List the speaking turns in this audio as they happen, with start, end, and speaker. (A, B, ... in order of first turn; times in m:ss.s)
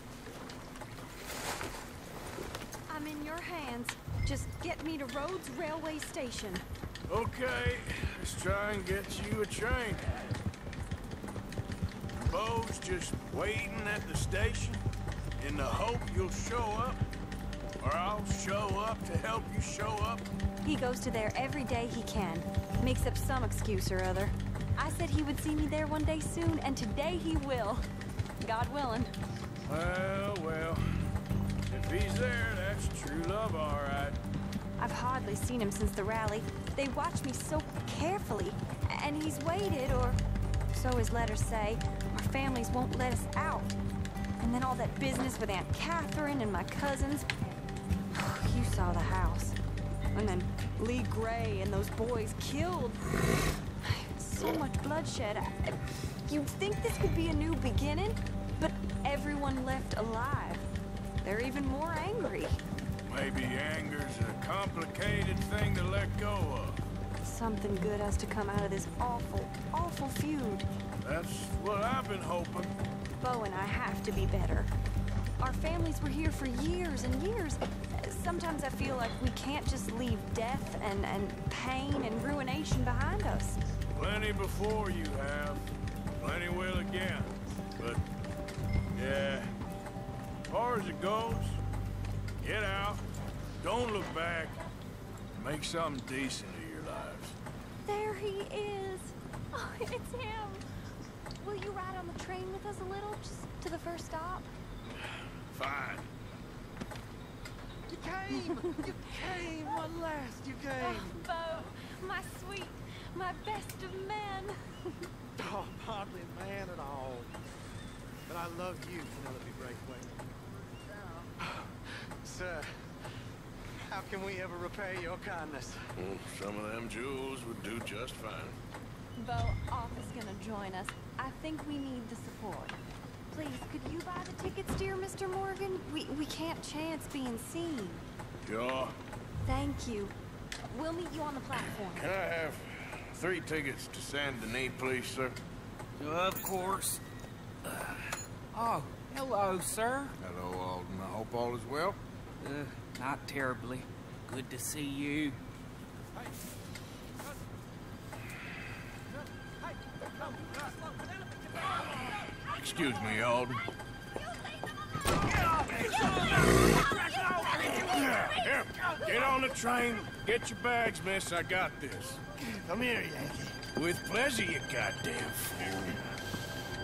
0:02.9-0:06.6 A
0:07.1-0:10.4 B
0:12.1-0:14.8 B
0:15.4-0:17.0 B
0:17.8-0:20.3 B
0:20.6-0:27.8 A
0:28.4-0:29.1 A
0:29.6-0:30.8 B
0:31.7-0:34.2 B
0:34.8-0:40.2 A
0:40.7-0:43.8 A
0:44.4-0:47.3 A
0:48.1-0:49.6 A
0:50.1-0:53.0 A
0:53.8-1:00.6 A
1:01.2-1:02.6 A
1:03.1-1:06.8 B
1:07.2-1:10.7 A
1:11.0-1:12.7 B
1:13.2-1:14.7 A
1:15.4-1:23.6 A
1:23.9-1:25.6 B
1:26.2-1:28.0 B
1:28.9-1:29.5 B
1:30.5-1:31.6 B
1:32.4-1:33.0 B
1:33.6-1:34.6 B
1:35.3-1:37.4 B
1:37.8-1:40.6 A
1:41.4-1:44.5 A
1:45.5-1:46.1 B
1:47.9-1:51.2 C
1:48.4-1:49.8 A
1:50.8-1:54.6 A
1:55.4-1:57.3 C
1:58.3-2:00.2 C
2:00.8-2:02.9 C
2:03.8-2:05.9 C
2:06.0-2:08.6 B
2:09.2-2:12.8 A
2:13.3-2:18.0 A
2:18.4-2:18.9 B
2:19.4-2:20.1 A
2:20.7-2:22.1 A
2:21.8-2:25.4 B
2:26.0-2:27.0 D
2:28.5-2:30.1 D
2:30.2-2:32.0 B
2:32.4-2:35.4 D
2:40.3-2:40.7 C
2:42.1-2:43.6 B
2:45.5-2:52.2 B
2:52.9-2:53.3 C
2:53.7-2:56.1 B